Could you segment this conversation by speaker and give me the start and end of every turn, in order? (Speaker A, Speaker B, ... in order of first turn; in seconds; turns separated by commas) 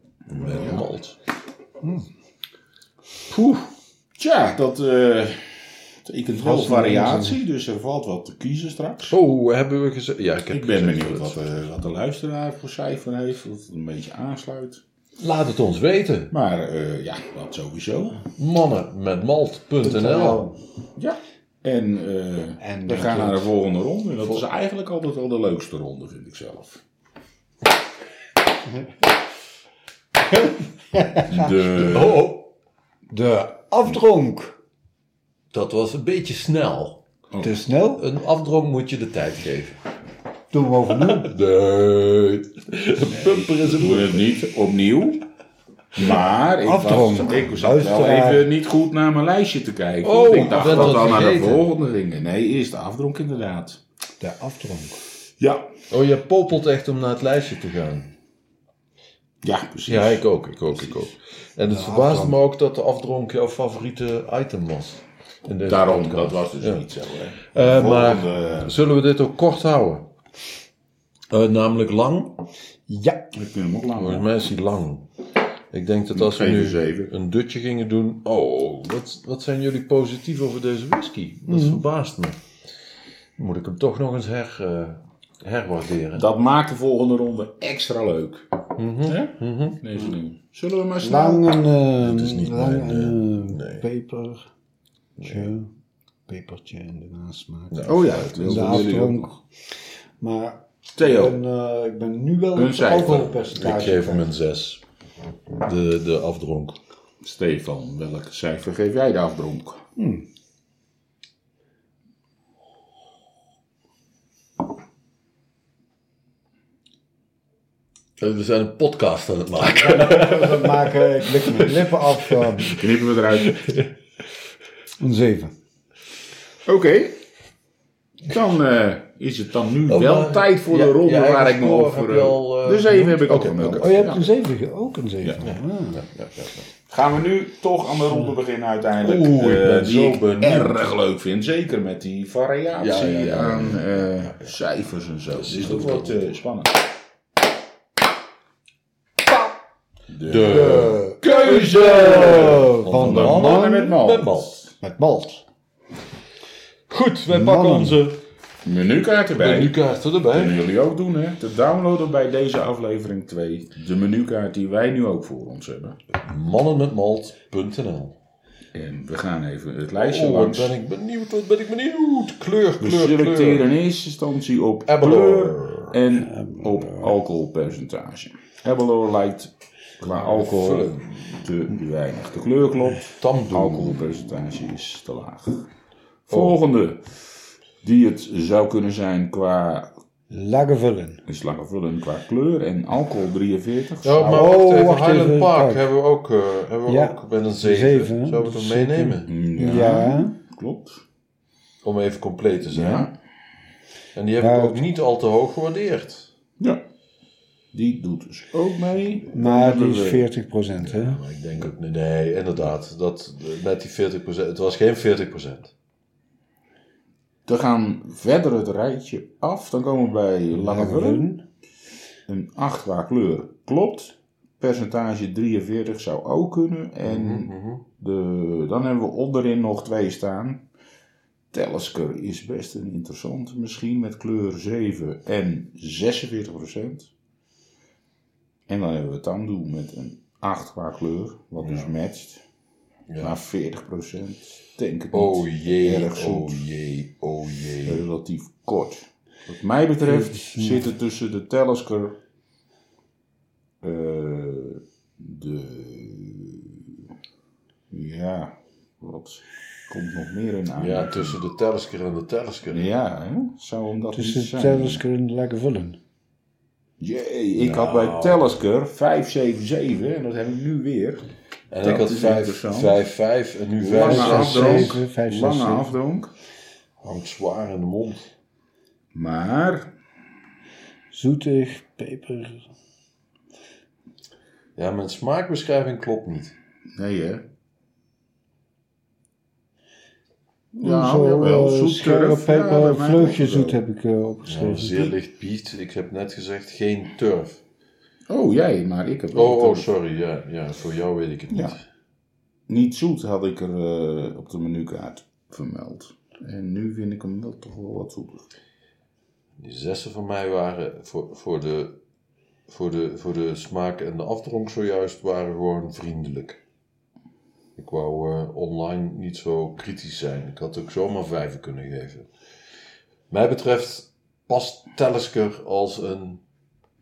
Speaker A: 0.3-1.2, Speaker B: 0.4-0.9, Speaker A: 3.3-3.7, Speaker B: 4.2-9.2, Speaker C: 6.3-7.4, Speaker A: 9.1-11.4, Speaker B: 10.5-14.8, Speaker A: 15.2-16.3, Speaker B: 16.3-18.3, Speaker A: 18.3-20.5, Speaker C: 19.8-20.6, Speaker B: 21.0-26.8, Speaker C: 22.6-23.5, Speaker C: 30.3-31.5, Speaker B: 31.3-32.3, Speaker A: 31.8-32.5, Speaker C: 33.1-34.6, Speaker A: 35.5-37.0, Speaker C: 37.4-38.0, Speaker A: 38.0-39.8, Speaker C: 40.5-41.3, Speaker A: 41.0-44.4, Speaker B: 43.0-45.2, Speaker B: 46.0-53.8, Speaker C: 46.6-48.5, Speaker A: 50.0-51.6, Speaker C: 50.7-51.2, Speaker C: 54.2-55.0, Speaker B: 55.4-55.7, Speaker A: 55.9-58.1, Speaker B: 59.4-60.2, Speaker A: 59.9-66.9, Speaker C: 61.7-62.4, Speaker B: 65.7-68.8, Speaker A: 67.5-70.1, Speaker A: 71.3-72.5, Speaker C: 72.9-73.3, Speaker B: 73.3-74.3, Speaker A: 74.0-75.1, Speaker A: 75.7-82.4, Speaker B: 76.1-77.1, Speaker C: 81.5-81.8, Speaker A: 83.4-86.2, Speaker B: 86.1-88.5, Speaker A: 88.8-89.8, Speaker B: 89.0-91.6, Speaker C: 91.0-94.5, Speaker A: 92.0-93.8, Speaker A: 95.2-95.5, Speaker C: 95.2-95.7, Speaker C: 96.3-99.4, Speaker A: 97.7-99.0, Speaker B: 97.8-99.3, Speaker C: 100.2-104.3, Speaker B: 101.0-101.4, Speaker B: 102.5-103.3, Speaker A: 103.0-104.8, Speaker A: 105.6-106.8, Speaker B: 107.2-109.8, Speaker C: 110.0-110.3, Speaker A: 118.2-122.9, Speaker C: 119.6-122.8, Speaker B: 122.7-123.6, Speaker A: 123.4-123.9, Speaker C: 125.0-125.5, Speaker B: 126.7-127.2, Speaker B: 128.2-134.2, Speaker A: 129.9-134.3, Speaker C: 133.8-136.0, Speaker A: 135.4-136.7, Speaker B: 136.9-146.8, Speaker C: 138.1-138.3, Speaker A: 139.0-140.9, Speaker A: 142.8-144.5, Speaker A: 145.3-146.4, Speaker B: 150.1-151.0, Speaker A: 150.3-154.6, Speaker C: 150.4-154.0, Speaker B: 152.2-154.7, Speaker C: 154.8-155.4, Speaker A: 156.9-158.2, Speaker C: 157.3-158.1, Speaker B: 158.6-159.8, Speaker A: 159.4-160.6, Speaker B: 160.3-166.0, Speaker A: 166.2-168.2, Speaker B: 168.7-170.8, Speaker A: 170.0-173.7, Speaker B: 172.8-185.7, Speaker A: 174.9-176.0, Speaker C: 176.2-177.2, Speaker A: 180.0-181.5, Speaker A: 183.2-184.1, Speaker B: 186.3-187.2, Speaker A: 186.3-186.6, Speaker B: 187.8-189.9, Speaker C: 190.3-191.2, Speaker B: 191.3-194.6, Speaker A: 194.0-199.3, Speaker C: 194.3-195.9, Speaker C: 196.9-200.4, Speaker B: 199.3-201.0, Speaker A: 201.8-203.1, Speaker B: 202.7-203.1, Speaker A: 204.2-206.3, Speaker C: 204.4-204.9, Speaker B: 207.7-210.3, Speaker C: 209.3-211.2, Speaker A: 210.8-215.7, Speaker B: 217.5-221.3, Speaker C: 220.6-221.4, Speaker B: 222.3-230.6, Speaker A: 227.1-227.8, Speaker B: 231.5-237.1, Speaker B: 238.7-242.4, Speaker A: 241.6-241.9, Speaker B: 243.2-246.7, Speaker A: 245.1-248.0, Speaker B: 247.8-252.2, Speaker C: 250.0-250.9, Speaker B: 253.8-256.9, Speaker B: 257.9-261.4, Speaker A: 260.8-262.9, Speaker B: 262.7-265.0, Speaker C: 264.1-266.0, Speaker B: 267.0-271.3, Speaker A: 267.6-268.4, Speaker A: 271.7-275.1, Speaker B: 271.8-273.0, Speaker B: 273.8-276.3, Speaker C: 274.0-275.9, Speaker A: 277.0-278.3, Speaker B: 279.1-279.9, Speaker C: 281.1-282.7, Speaker A: 284.8-286.6, Speaker B: 287.0-287.4, Speaker B: 290.7-293.8, Speaker C: 290.8-295.1, Speaker A: 294.5-297.6, Speaker B: 298.3-299.9, Speaker A: 299.3-301.8, Speaker B: 302.7-308.5, Speaker A: 309.6-312.0, Speaker A: 312.7-316.6, Speaker A: 317.8-322.3, Speaker A: 323.3-326.4